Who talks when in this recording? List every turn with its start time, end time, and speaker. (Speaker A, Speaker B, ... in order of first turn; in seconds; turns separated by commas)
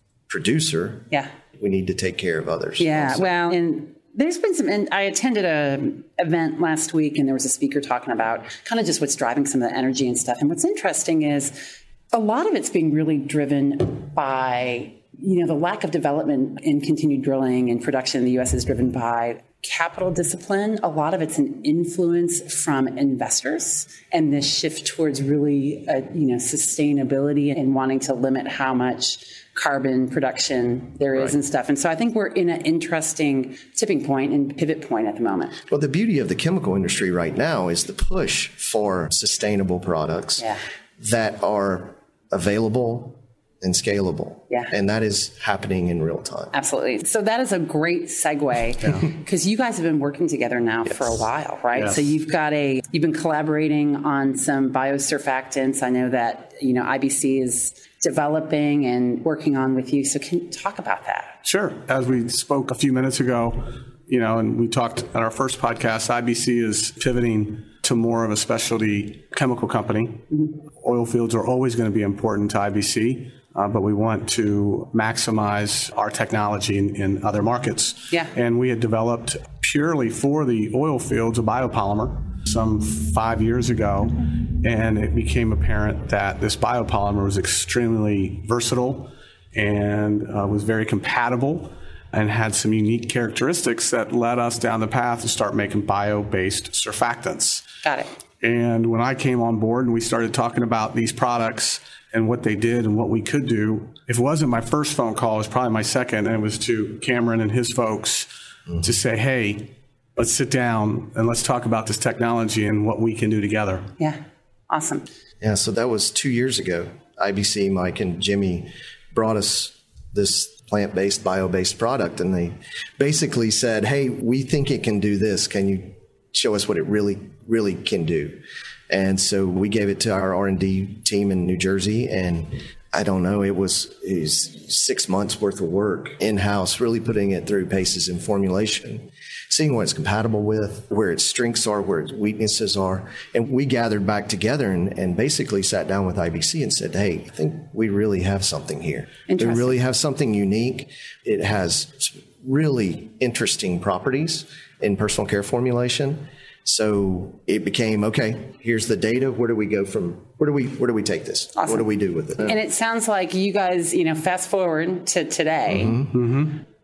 Speaker A: 0.3-3.3, Speaker B: 2.8-35.6, Speaker A: 35.7-46.5, Speaker B: 46.5-61.4, Speaker C: 51.7-52.1, Speaker C: 61.4-97.7, Speaker B: 97.8-98.1, Speaker C: 98.4-108.3, Speaker C: 108.8-113.9, Speaker B: 114.0-115.0, Speaker A: 115.4-128.4, Speaker A: 128.9-162.6, Speaker B: 149.3-149.7, Speaker B: 161.6-161.8, Speaker B: 162.4-166.0, Speaker A: 165.7-166.1, Speaker C: 166.1-166.6